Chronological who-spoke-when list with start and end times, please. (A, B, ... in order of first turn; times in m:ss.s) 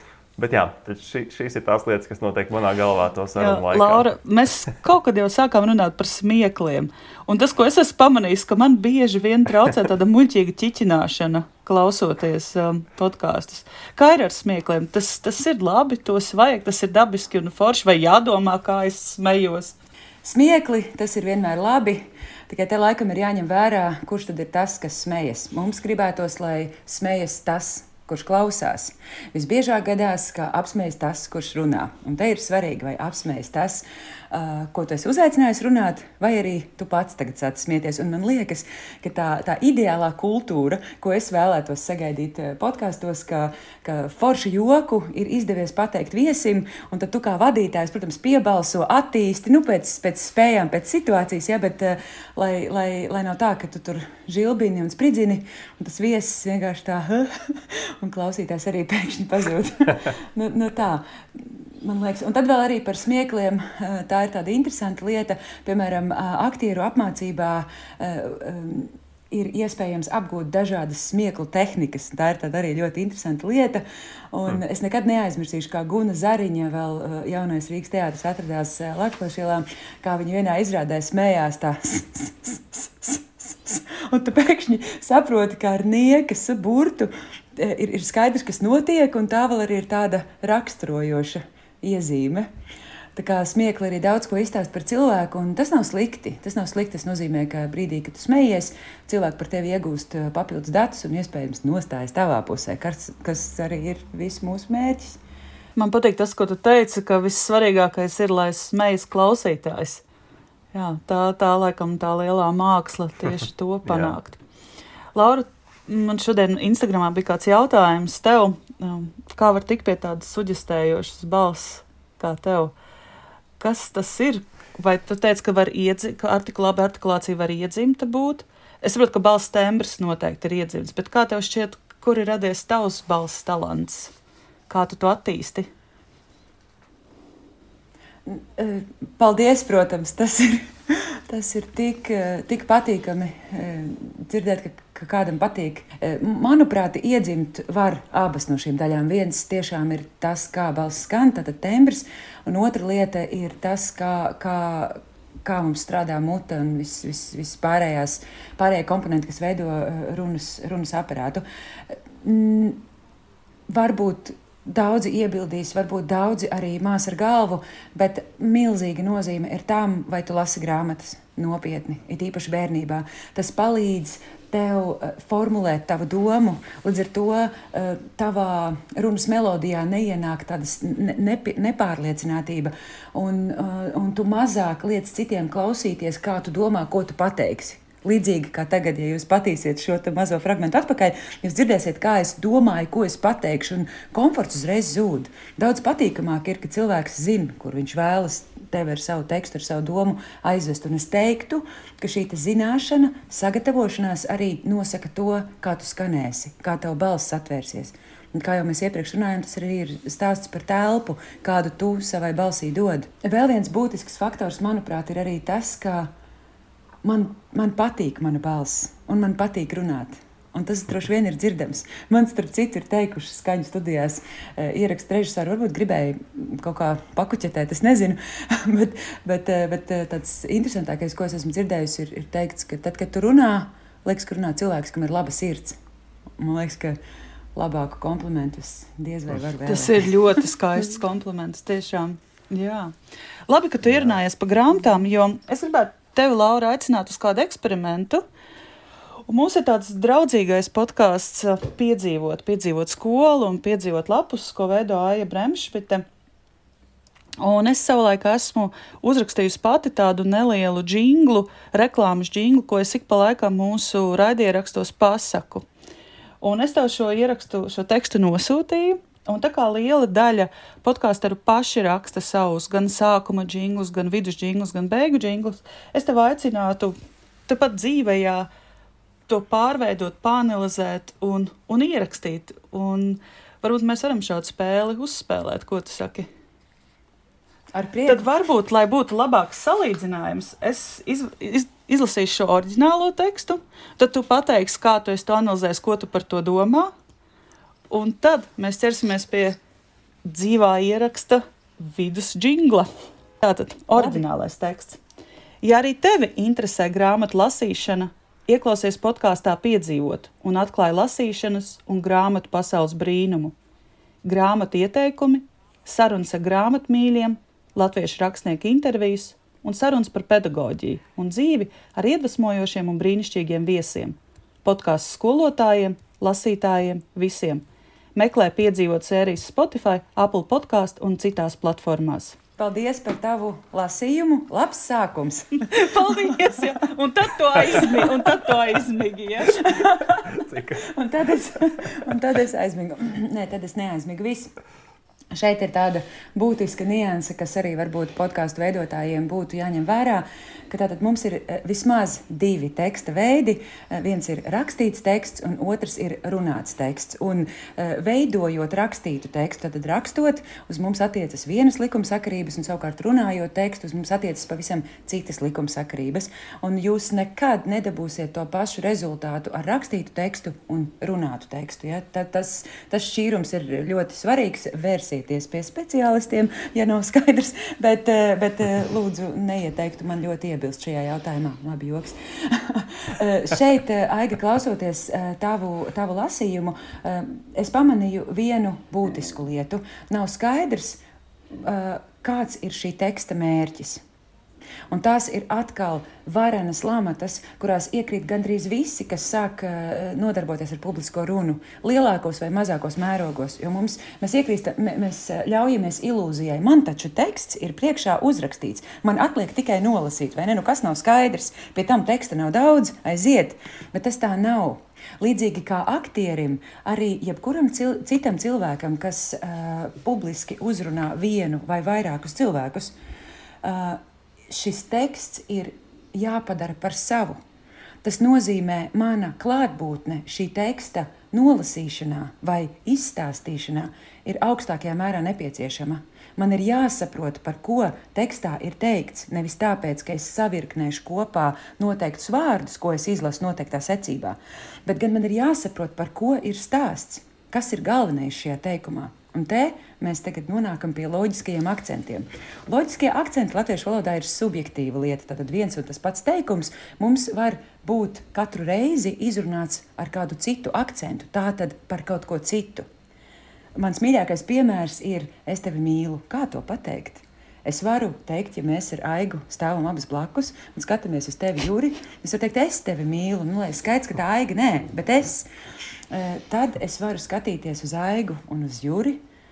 0:00.4-0:04.0 A
0:03.4-0:19.7 B
0:20.2-1:32.5 C
1:33.2-1:45.2 C
1:45.8-1:50.0 B
1:50.7-1:54.4 B
1:53.8-1:54.2 A
1:55.1-2:02.7 B
2:03.6-2:14.1 B
2:14.7-2:15.7 B
2:18.3-2:42.8 C
2:43.7-3:36.1 C
3:37.0-3:55.8 C
3:56.4-3:57.0 C
3:57.6-4:00.1 C
3:59.6-4:02.9 B
4:03.5-4:08.2 B
4:03.8-4:04.2 A
4:09.3-4:16.0 B
4:17.4-4:25.6 B
4:26.4-4:37.0 B
4:37.5-4:38.5 B
4:39.3-4:46.3 B
4:47.7-4:48.2 C
4:48.1-4:56.9 B
4:57.9-4:59.6 B
5:00.2-5:02.9 B
5:03.4-5:05.0 B
5:05.6-5:13.5 B
5:14.2-5:27.6 B
5:28.1-5:32.4 B
5:32.6-5:36.6 C
5:35.7-5:39.6 B
5:37.5-5:38.4 C
5:39.4-5:44.5 C
5:40.3-5:40.8 A
5:45.3-6:31.0 C
6:31.6-6:34.0 C
6:34.9-7:02.9 C
7:03.6-7:07.4 C
7:08.0-7:42.8 C
7:43.8-7:55.5 C
7:56.1-7:59.2 C